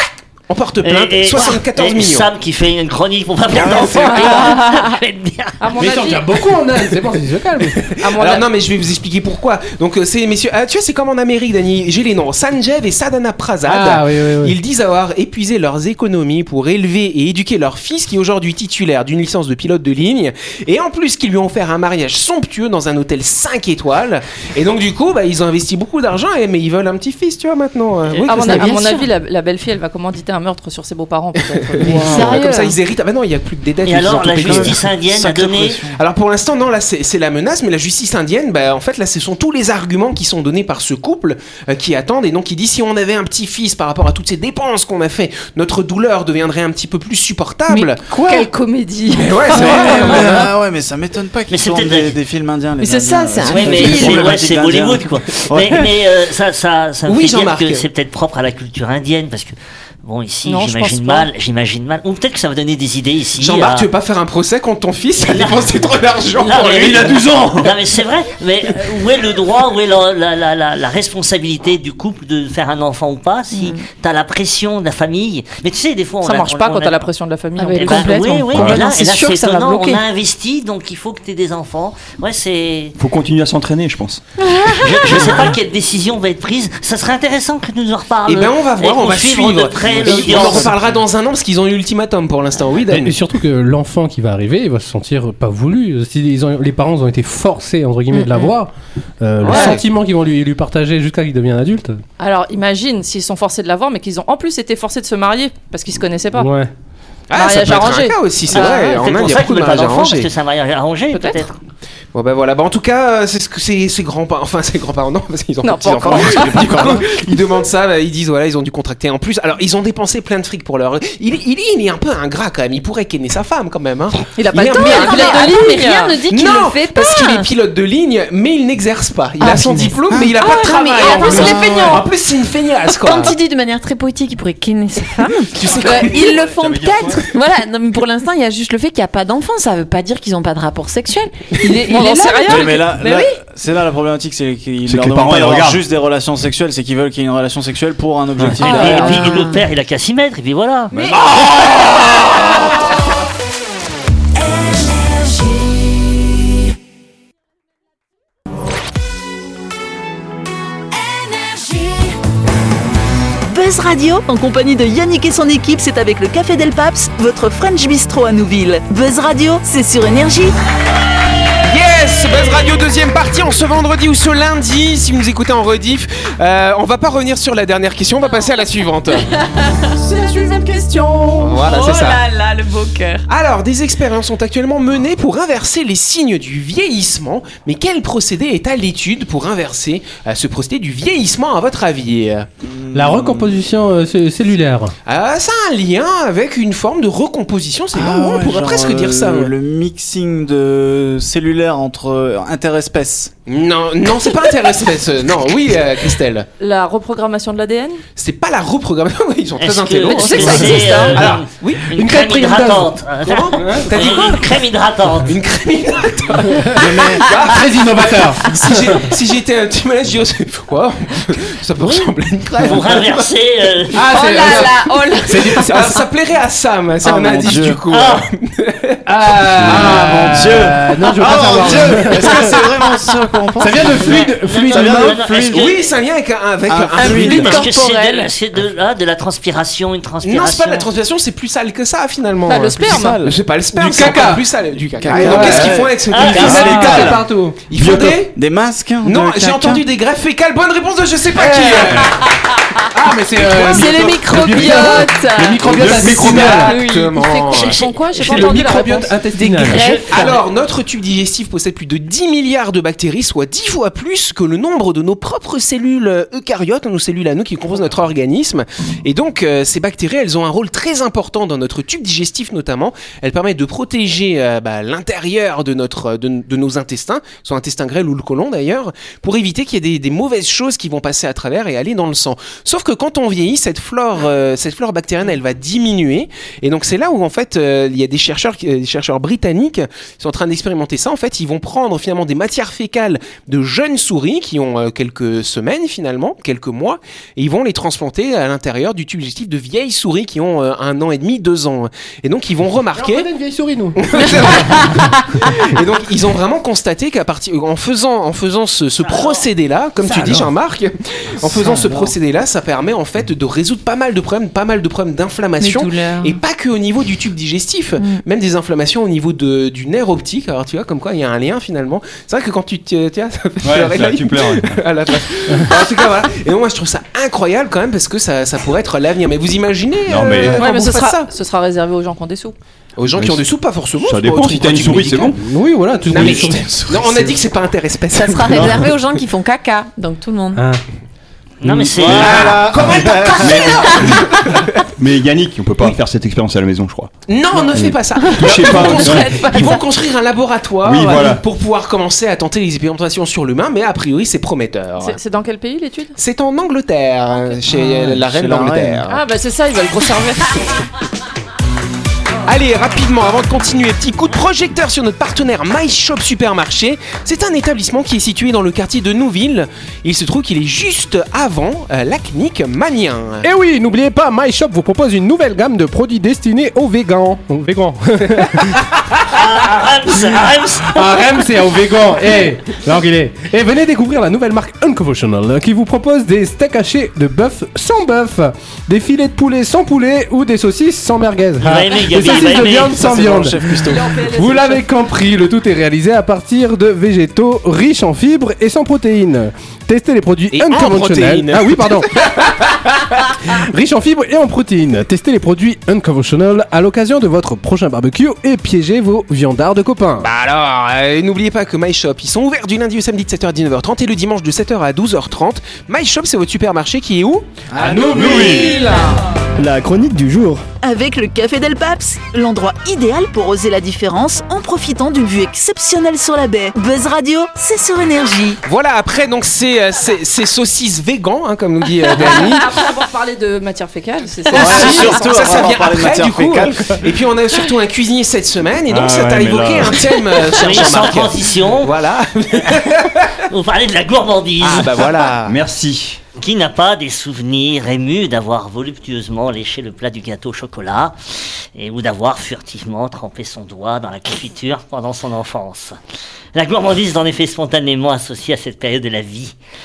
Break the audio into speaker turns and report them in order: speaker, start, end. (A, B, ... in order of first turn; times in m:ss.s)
0:00.5-0:02.3 A
0:00.8-0:05.6 B
0:03.7-0:04.0 A
0:04.0-0:04.8 C
0:05.6-0:06.2 C
0:05.8-0:07.8 D
0:07.6-0:28.7 A
0:08.0-0:08.5 C
0:13.6-0:14.6 D
0:28.2-0:32.5 C
0:28.4-0:29.1 E
0:31.8-0:34.8 A
0:31.8-0:32.8 E
0:33.8-0:35.8 B
0:34.4-0:36.0 F
0:35.9-0:48.0 A
0:48.1-0:50.5 C
0:48.1-0:48.4 F
0:49.1-0:50.4 A
0:49.5-0:55.9 F
0:51.5-0:52.1 B
0:52.8-0:54.4 E
0:53.4-1:03.9 B
0:57.0-0:57.8 A
1:00.4-1:01.3 C
1:03.4-1:07.2 A
1:05.3-1:05.6 B
1:06.4-1:17.1 B
1:06.8-1:07.7 G
1:13.5-1:13.8 E
1:16.2-1:18.2 C
1:17.6-1:20.0 E
1:17.7-1:23.0 B
1:18.5-1:18.8 G
1:23.0-1:24.2 G
1:24.4-1:25.5 E
1:24.7-1:30.7 B
1:28.2-1:33.2 A
1:30.0-1:30.7 F
1:32.9-1:42.0 D
1:38.1-1:38.5 E
1:39.4-1:39.8 A
1:39.4-1:39.8 C
1:42.2-1:46.5 C
1:46.4-1:46.7 D
1:47.3-1:50.3 A
1:47.3-1:49.0 C
1:48.5-1:51.6 B
1:51.1-1:51.4 C
1:52.1-2:05.7 A
1:55.6-1:57.0 C
1:55.9-1:57.1 F
2:04.4-2:06.2 C
2:04.5-2:07.5 E
2:06.3-2:13.4 A
2:09.4-2:12.1 E
2:10.4-2:12.0 C
2:12.9-2:23.3 E
2:15.5-2:16.4 A
2:15.6-2:17.2 G
2:21.6-2:23.2 C
2:22.4-2:29.3 F
2:24.8-2:25.8 G
2:28.5-2:31.1 B
2:28.6-2:29.2 C
2:28.7-2:29.6 E
2:43.5-2:50.5 H
2:51.6-2:59.3 A
2:59.5-3:03.2 E
3:01.4-3:02.2 A
3:03.3-3:12.5 A
3:12.6-3:13.6 F
3:12.9-3:14.9 D
3:15.0-3:19.5 A
3:17.9-3:23.3 F
3:23.5-3:26.5 A
3:26.6-3:28.0 C
3:28.2-3:32.5 A
3:29.6-3:35.3 B
3:30.1-3:31.1 C
3:30.3-3:31.1 E
3:32.0-3:32.9 D
3:33.2-3:34.5 A
3:33.6-3:33.9 D
3:35.2-3:43.3 A
3:36.5-3:39.0 D
3:36.8-3:37.2 F
3:42.6-3:44.0 B
3:43.9-3:46.0 D
3:44.0-3:45.8 E
3:45.4-3:49.0 A
3:47.0-3:47.8 F
3:47.9-3:48.3 B
3:49.0-3:52.7 D
3:49.6-3:55.6 F
3:49.7-3:50.1 A
3:53.6-3:55.3 D
3:53.8-3:55.9 B
3:55.5-3:57.6 A
3:56.7-3:57.5 F
3:57.0-3:58.3 E
3:57.1-4:00.9 B
4:00.2-4:08.4 A
4:02.5-4:03.3 C
4:02.9-4:04.4 D
4:05.0-4:09.8 F
4:05.1-4:07.7 D
4:06.1-4:06.8 B
4:09.0-4:12.2 A
4:11.4-4:12.1 D
4:12.9-4:16.8 D
4:13.0-4:14.2 A
4:13.5-4:17.8 E
4:14.7-4:15.0 A
4:15.6-4:18.4 A
4:17.2-4:19.2 C
4:18.2-4:20.0 D
4:19.4-5:03.3 A
4:19.5-4:20.4 E
5:03.0-5:04.8 D
5:04.0-5:31.3 A
5:09.1-5:09.4 B
5:11.4-5:12.1 F
5:15.6-5:16.4 E
5:18.0-5:18.2 E
5:23.6-5:24.8 G
5:30.1-5:30.6 G
5:30.2-5:30.6 D
5:30.6-5:32.5 C
5:33.0-5:35.4 A
5:33.1-5:33.4 G
5:34.0-5:35.4 G
5:35.4-5:36.7 D
5:36.1-5:38.8 A
5:36.2-5:36.5 G
5:36.2-5:37.4 F
5:38.1-5:40.6 E
5:40.5-5:40.8 D
5:41.6-5:42.5 B
5:41.7-5:43.8 F
5:42.0-5:44.8 A
5:43.4-5:44.2 G
5:43.4-5:44.0 E
5:45.0-5:47.1 G
5:47.3-5:55.2 A
5:47.7-5:49.6 G
5:48.2-5:49.8 E
5:50.8-5:51.4 G
5:55.0-5:56.1 C
5:56.2-5:59.2 A
5:57.7-5:59.0 F
5:59.1-6:00.7 C
6:02.4-6:13.5 A
6:13.4-6:18.8 D
6:19.3-6:21.1 B
6:20.8-6:42.1 D
6:31.6-6:33.1 B
6:32.2-6:34.1 F
6:33.8-6:34.8 C
6:40.5-6:42.8 A
6:43.5-6:50.3 D
6:50.2-6:57.5 A
6:57.8-6:58.6 F
6:57.8-6:59.0 D
6:58.0-6:58.8 G
6:58.1-6:58.7 A
6:59.6-7:00.6 G
7:00.8-7:08.6 H
7:08.6-7:12.8 A
7:12.1-7:15.6 C
7:14.5-7:17.0 F
7:14.5-7:23.4 A
7:18.9-7:20.0 G
7:20.5-7:21.9 B
7:23.5-7:25.0 B
7:24.6-7:25.6 A
7:25.4-7:26.2 G
7:26.4-7:31.2 B
7:31.7-7:36.0 B
7:36.5-7:39.5 B